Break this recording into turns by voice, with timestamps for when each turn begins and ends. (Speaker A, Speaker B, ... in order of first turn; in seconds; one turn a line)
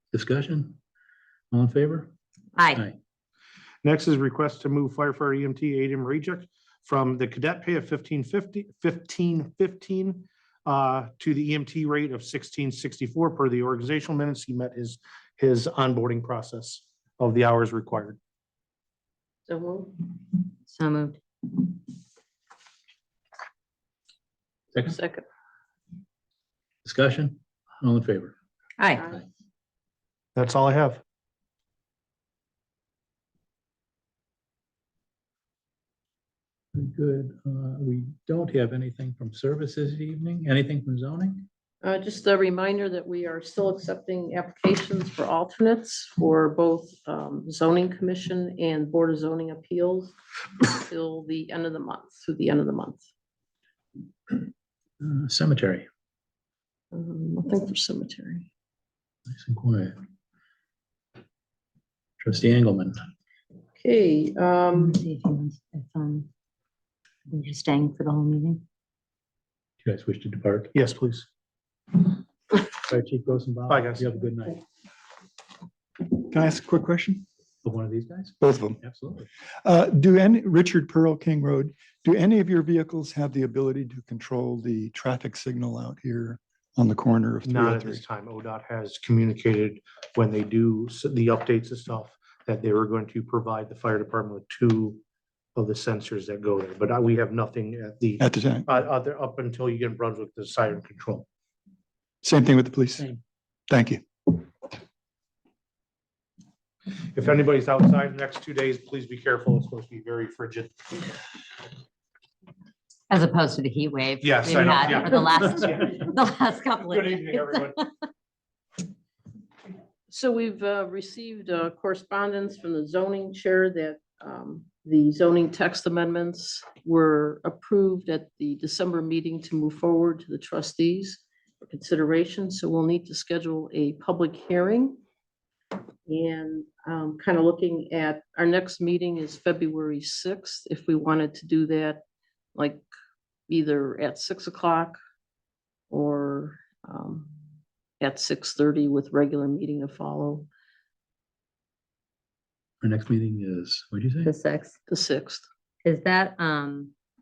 Speaker A: 0.1-0.8
Speaker A: 1.5-2.1
Speaker B: 2.5-2.8
Speaker C: 3.8-18.2
Speaker D: 19.5-19.9
Speaker B: 20.7-21.2
Speaker D: 24.8-25.2
Speaker A: 26.8-28.4
Speaker B: 28.8-29.1
Speaker C: 30.4-31.0
Speaker A: 36.7-41.5
Speaker D: 41.8-53.1
Speaker A: 55.0-55.9
Speaker D: 56.9-58.5
Speaker A: 59.3-60.0
Speaker A: 62.2-63.0
Speaker D: 63.8-65.0
Speaker B: 64.7-66.3
Speaker B: 67.3-68.6
Speaker A: 69.8-70.8
Speaker C: 70.8-71.3
Speaker A: 72.6-74.6
Speaker C: 73.7-74.0
Speaker E: 76.1-77.2
Speaker A: 77.6-79.3
Speaker E: 78.4-78.8
Speaker E: 79.6-88.0
Speaker C: 87.4-95.0
Speaker C: 95.5-101.3
Speaker E: 98.2-98.7
Speaker E: 102.2-103.1
Speaker E: 103.7-104.4
Speaker C: 107.1-111.0
Speaker B: 113.1-117.9
Speaker C: 114.2-115.9
Speaker C: 116.9-117.7
Speaker D: 120.1-135.0
Speaker D: 136.1-142.0
Speaker D: 142.6-142.8
Speaker D: 143.5-145.0
Speaker D: 145.9-147.3
Speaker D: 148.0-150.5
Speaker A: 152.8-154.3
Speaker B: 154.2-154.8
Speaker D: 154.9-155.5
Speaker B: 155.8-156.9